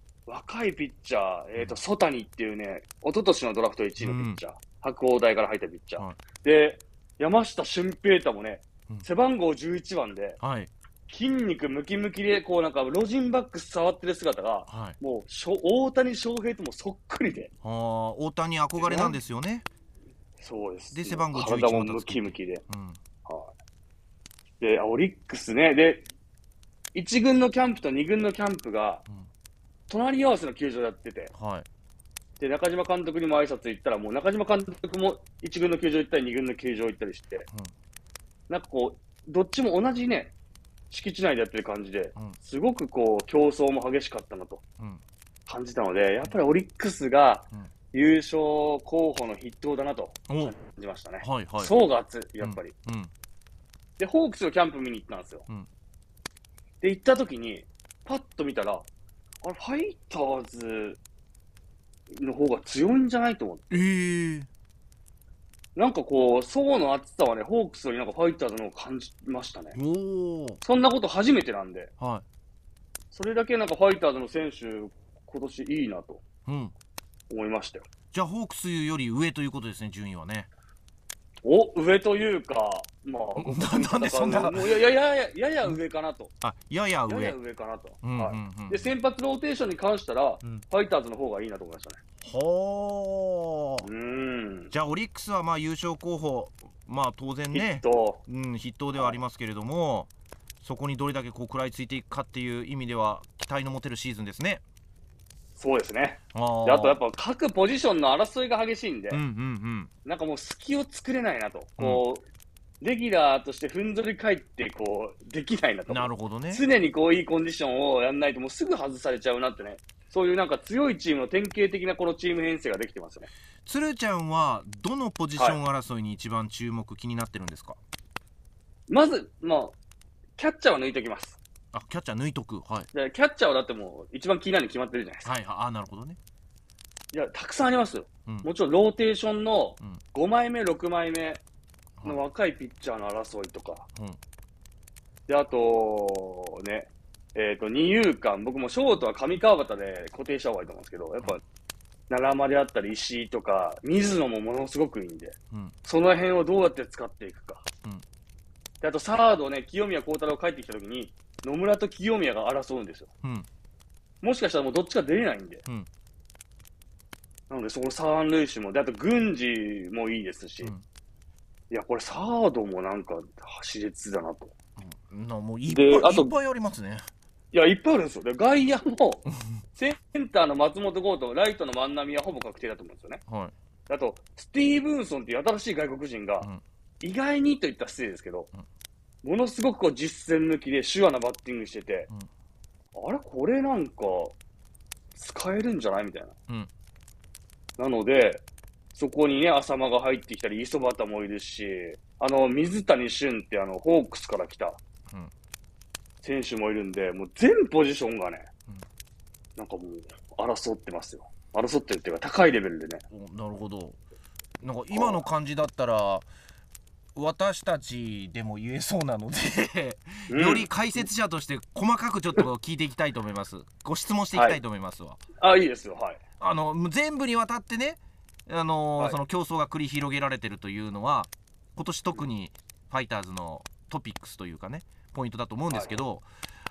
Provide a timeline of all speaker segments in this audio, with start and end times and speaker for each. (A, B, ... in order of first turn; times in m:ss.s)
0:00.3-0:10.4 A
0:04.0-0:04.4 B
0:10.4-0:10.7 B
0:11.1-0:17.5 A
0:14.7-0:15.0 B
0:17.6-0:19.6 B
0:18.8-0:19.2 A
0:20.4-0:22.6 A
0:20.9-0:23.0 B
0:23.2-0:23.5 A
0:24.6-0:26.0 A
0:26.9-0:29.0 A
0:29.9-0:31.3 A
0:31.3-0:31.6 B
0:32.4-0:37.5 A
0:38.5-0:40.3 A
0:40.9-0:44.6 A
0:45.5-0:52.7 A
0:50.3-0:50.5 B
0:51.2-0:51.8 B
0:52.4-0:53.1 B
0:54.0-0:55.5 A
0:56.8-0:58.9 A
0:59.4-1:01.0 A
1:02.1-1:03.8 A
1:03.7-1:04.5 B
1:05.7-1:09.8 A
1:09.7-1:10.6 B
1:10.6-1:11.9 A
1:13.1-1:16.2 A
1:16.4-1:16.7 B
1:17.3-1:17.8 A
1:18.1-1:20.5 B
1:21.4-1:26.3 A
1:23.4-1:24.8 B
1:26.4-1:27.4 B
1:27.1-1:32.0 A
1:28.0-1:28.9 B
1:32.2-1:33.9 B
1:33.8-1:34.7 A
1:34.7-1:40.1 B
1:37.5-1:38.2 A
1:40.6-1:44.6 B
1:45.6-1:49.2 A
1:46.3-1:47.0 B
1:49.1-1:49.9 B
1:50.0-1:52.2 A
1:52.8-2:03.3 A
1:55.9-1:56.6 B
2:03.6-2:07.8 B
2:08.9-2:09.8 A
2:10.4-2:11.4 A
2:11.7-2:12.9 B
2:12.9-2:15.3 A
2:15.2-2:16.2 B
2:17.1-2:21.4 A
2:22.0-2:23.8 A
2:25.3-2:31.4 A
2:32.1-2:37.6 A
2:38.8-2:43.1 A
2:44.2-2:45.6 A
2:47.5-2:50.7 A
2:51.7-2:54.5 A
2:54.8-2:57.0 B
2:55.7-2:56.3 A
2:57.5-3:03.2 A
3:03.3-3:03.5 B
3:03.9-3:06.5 A
3:07.0-3:08.5 A
3:09.2-3:12.1 A
3:12.9-3:14.4 A
3:15.1-3:16.3 A
3:17.8-3:18.4 A
3:18.9-3:24.8 A
3:26.2-3:28.5 A
3:29.6-3:33.0 A
3:33.1-3:34.0 B
3:34.6-3:36.3 B
3:34.9-3:35.2 A
3:37.2-3:45.2 B
3:40.3-3:40.7 A
3:44.3-3:44.6 A
3:45.4-3:46.2 A
3:46.4-3:56.3 B
3:55.7-3:56.0 A